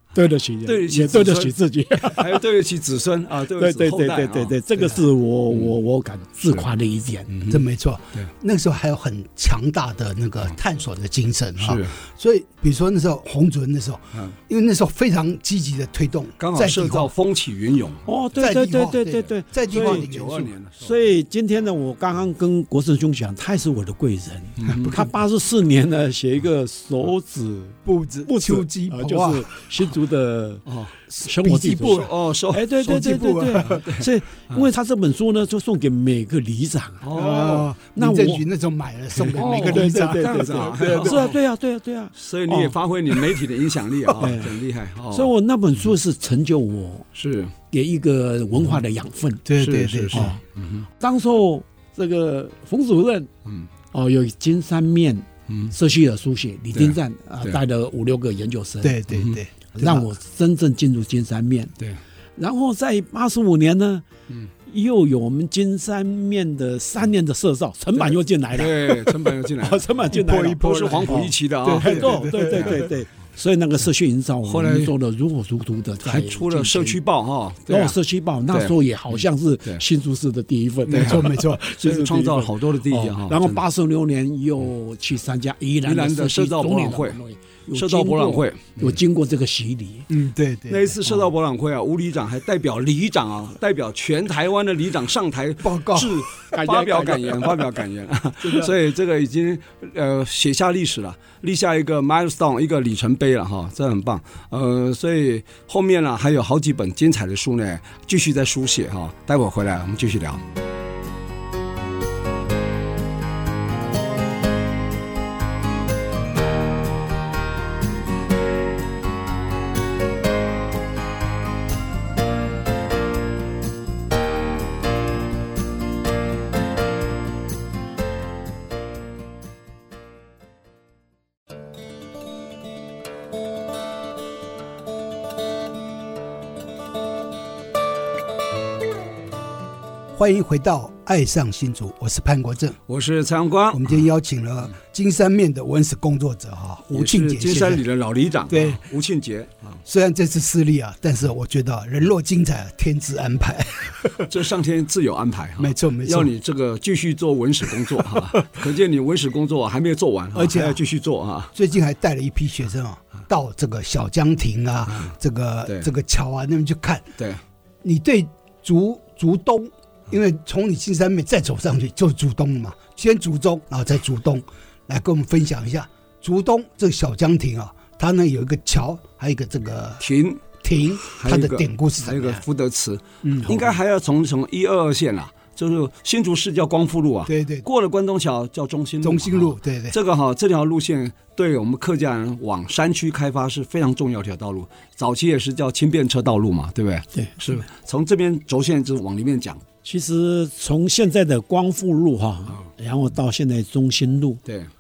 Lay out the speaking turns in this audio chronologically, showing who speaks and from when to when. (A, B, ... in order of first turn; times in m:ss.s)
0:00.2-0:02.4 A
0:00.6-0:04.6 B
0:03.6-0:07.3 A
0:05.5-0:05.7 B
0:07.3-0:07.6 B
0:07.5-0:17.1 C
0:11.6-0:11.9 B
0:16.4-0:18.1 B
0:18.1-0:20.1 A
0:18.4-0:20.5 C
0:19.7-0:21.0 B
0:20.8-0:30.7 A
0:24.6-0:25.0 B
0:27.8-0:29.6 C
0:30.7-0:31.0 B
0:31.1-0:32.1 C
0:31.2-0:37.1 A
0:31.6-0:34.7 B
0:32.8-0:33.8 C
0:37.0-0:37.7 B
0:37.1-0:41.3 C
0:38.0-0:38.4 A
0:39.2-0:42.8 A
0:39.3-0:41.4 B
0:42.2-0:45.3 B
0:44.2-0:47.1 A
0:47.2-0:47.5 B
0:47.7-0:49.5 A
0:49.4-0:50.3 C
0:49.6-0:50.8 B
0:50.1-0:50.4 A
0:51.0-0:53.3 A
0:53.9-0:59.0 A
0:55.5-0:55.7 B
0:56.7-0:57.6 B
0:58.8-1:00.1 C
0:59.8-1:01.7 A
1:02.4-1:04.0 A
1:04.7-1:17.0 A
1:08.0-1:09.9 B
1:10.1-1:12.9 C
1:10.5-1:12.8 B
1:14.4-1:14.9 B
1:16.0-1:17.9 B
1:17.7-1:30.1 A
1:18.5-1:19.8 B
1:20.8-1:21.6 C
1:20.9-1:23.6 B
1:25.8-1:27.2 B
1:27.7-1:29.0 B
1:30.1-1:31.0 C
1:30.7-1:50.4 B
1:35.6-1:36.2 C
1:36.4-1:37.8 A
1:38.4-1:38.7 C
2:20.2-2:22.8 C
2:22.9-2:24.0 B
2:23.7-2:27.8 C
2:26.9-2:29.8 B
2:28.5-2:28.8 C
2:29.8-2:34.3 C
2:34.3-2:41.5 B
2:35.6-2:36.3 C
2:40.3-2:40.8 C
2:41.5-2:47.0 C
2:44.9-2:45.1 B
2:47.8-3:00.0 C
3:00.0-3:00.4 B
3:00.6-3:02.4 C
3:01.0-3:19.6 B
3:03.2-3:03.6 C
3:07.3-3:07.6 C
3:09.0-3:10.0 C
3:17.2-3:17.4 A
3:19.8-3:24.4 A